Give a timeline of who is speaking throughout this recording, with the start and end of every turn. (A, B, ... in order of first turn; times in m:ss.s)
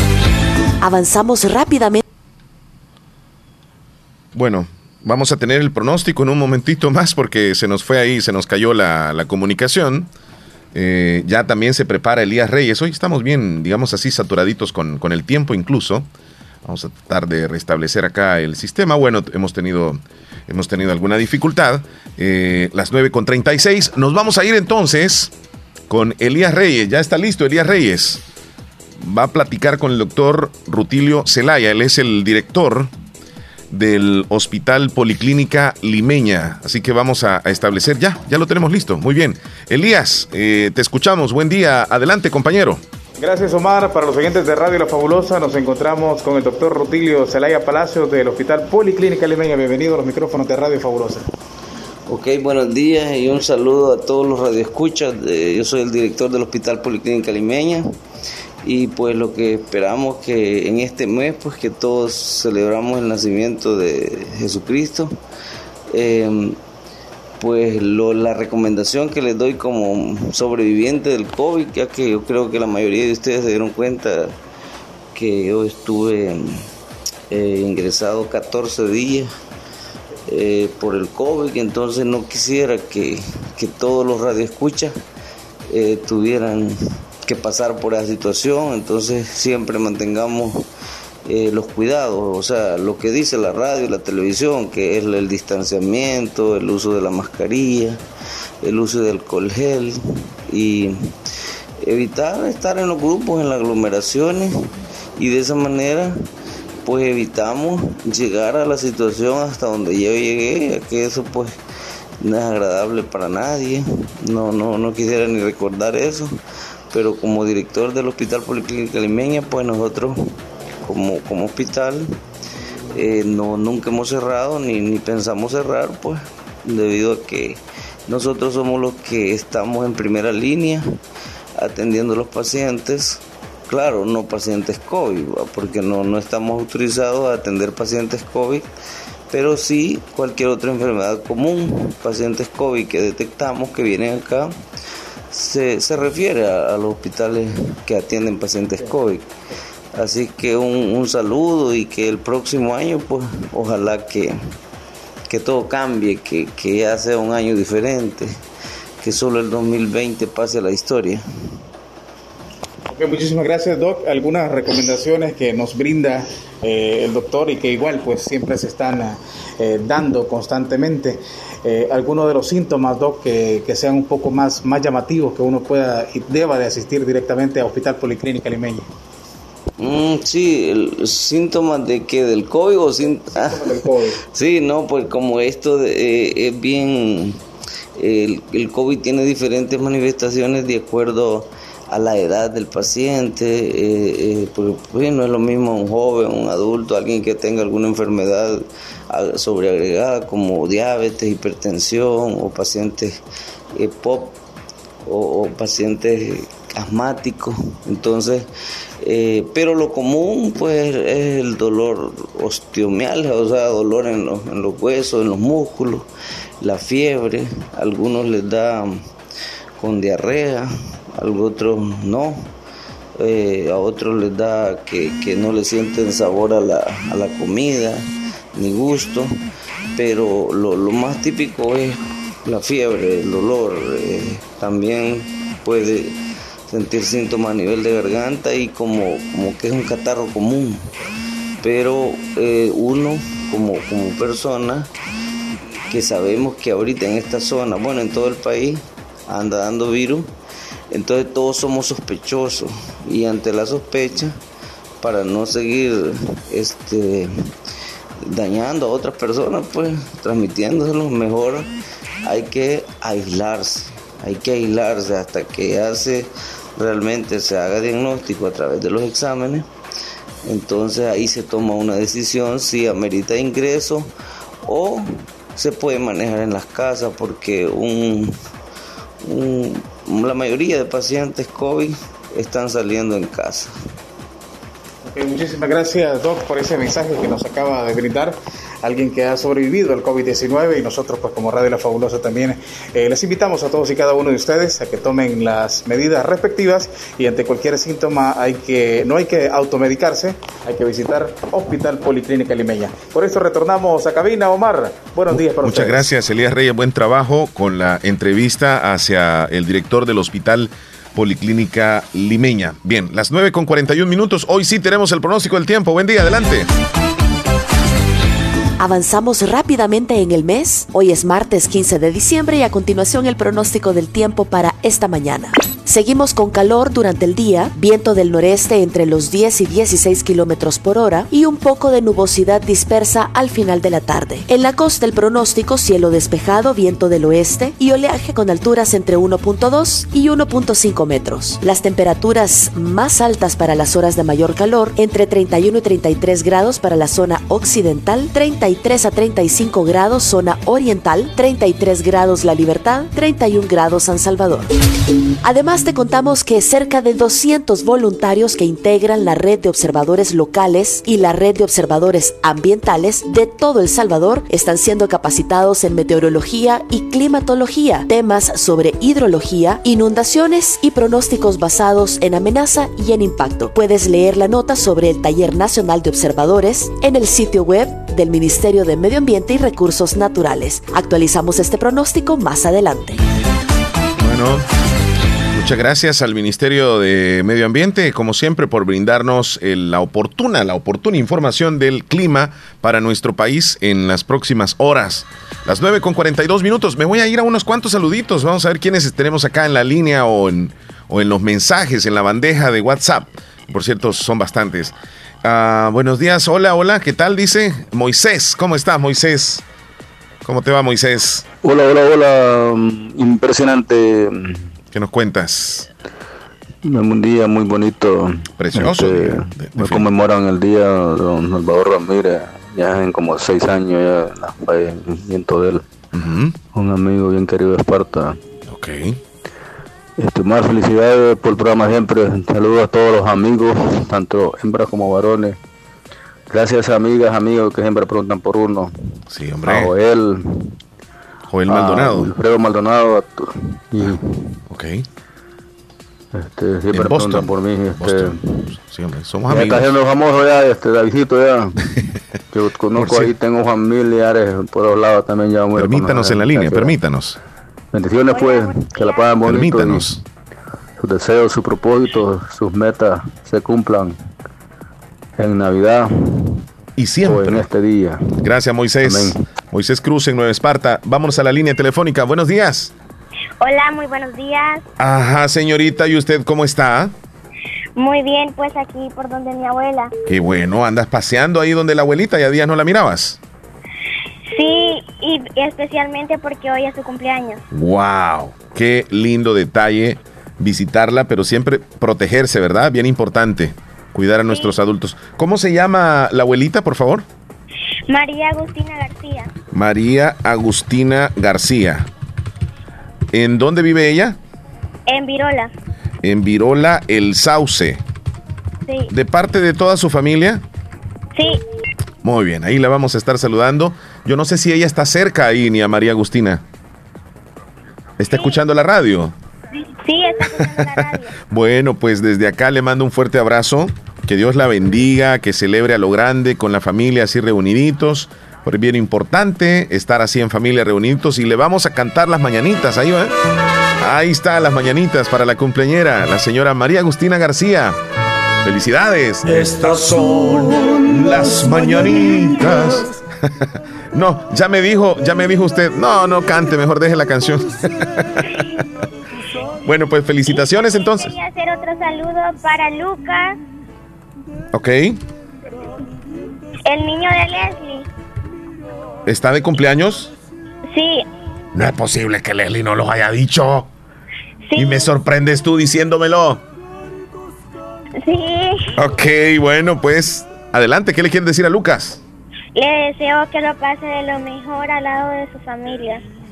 0:00.8-0:02.0 A
0:04.3-0:10.1 B
0:10.7-0:16.1 B
0:16.6-0:25.3 B
0:25.9-0:28.2 B
0:29.0-0:32.9 B
0:33.7-0:42.8 B
0:43.2-0:51.3 C
0:52.1-0:57.9 D
0:58.6-1:05.2 D
1:05.9-1:06.6 D
1:07.4-1:14.4 D
1:15.2-1:16.6 D
1:17.3-1:19.3 D
1:20.3-1:25.0 D
1:25.7-1:30.7 D
1:31.3-1:38.0 D
1:38.6-1:41.2 D
1:41.8-1:46.2 D
1:46.8-1:51.6 D
1:52.2-1:56.4 D
1:56.9-2:02.2 D
2:02.9-2:10.9 D
2:11.6-2:18.7 D
2:19.3-2:24.5 D
2:25.3-2:29.3 D
2:30.0-2:34.4 D
2:35.3-2:38.4 D
2:39.0-2:41.6 D
2:42.9-2:58.9 C
2:59.8-3:07.4 D
3:03.4-3:04.2 C
3:08.0-3:23.2 D
3:23.8-3:24.4 D
3:25.1-3:28.5 D
3:29.0-3:36.1 D
3:36.6-3:39.1 D
3:39.8-3:42.5 D
3:43.2-3:48.0 D
3:48.6-3:49.3 D
3:50.0-4:00.9 D
4:01.6-4:04.9 D
4:05.9-4:10.3 D
4:10.9-4:14.4 D
4:15.0-4:17.5 D
4:18.3-4:21.7 D
4:22.2-4:29.7 D
4:30.4-4:34.1 D
4:34.7-4:38.4 D
4:39.2-4:43.7 D
4:45.1-5:06.0 C
5:05.3-5:16.7 B
5:18.8-5:54.7 A
5:55.4-6:23.2 A
6:24.2-6:24.7 B
6:25.5-6:49.6 B
6:50.4-6:51.4 B
6:51.6-6:54.7 E
6:54.9-6:55.9 B
6:56.8-7:05.8 E
6:58.6-7:00.1 B
7:06.1-7:06.6 B
7:06.7-7:08.4 E
7:08.7-7:09.2 B
7:10.2-7:15.6 E
7:16.5-7:18.9 E
7:19.3-7:19.9 B
7:19.7-7:20.7 E
7:21.5-7:22.3 B
7:21.7-7:24.3 E
7:24.7-7:25.0 B
7:26.4-7:28.6 E
7:26.9-7:29.9 B
7:29.5-7:31.8 E
7:32.5-7:37.0 E
7:33.0-7:33.3 B
7:35.8-7:37.4 B
7:37.9-7:40.2 E
7:38.3-7:39.3 F
7:39.4-7:40.2 B
7:41.0-7:44.2 E
7:45.4-7:46.6 E
7:47.0-7:47.7 B
7:47.2-7:48.2 E
7:48.4-7:52.9 B
7:49.0-7:49.4 E
7:53.6-7:54.8 F
7:55.0-7:57.1 B
7:58.0-8:00.1 F
8:00.3-8:03.4 B
8:04.5-8:07.6 F
8:07.7-8:17.3 B
8:14.5-8:14.7 F
8:18.1-8:19.5 F
8:19.7-8:22.1 B
8:23.3-8:24.4 B
8:25.1-8:25.7 F
8:26.2-8:28.0 B
8:29.1-8:30.6 B
8:31.4-8:31.6 F
8:32.2-8:36.6 B
8:38.2-8:39.3 B
8:38.3-8:38.6 F
8:40.0-8:41.3 F
8:40.6-8:53.3 B
8:54.0-8:58.0 B
8:58.6-9:03.1 B
9:04.1-9:07.8 B
9:09.8-9:11.4 B
9:10.5-9:13.6 F
9:14.7-9:15.2 B
9:16.9-9:18.1 F
9:19.3-9:20.3 B
9:20.9-9:21.2 F
9:21.8-9:23.9 B
9:24.7-9:25.1 F
9:24.8-9:26.6 B
9:28.2-9:28.9 F
9:29.0-9:32.2 B
9:32.8-9:36.2 F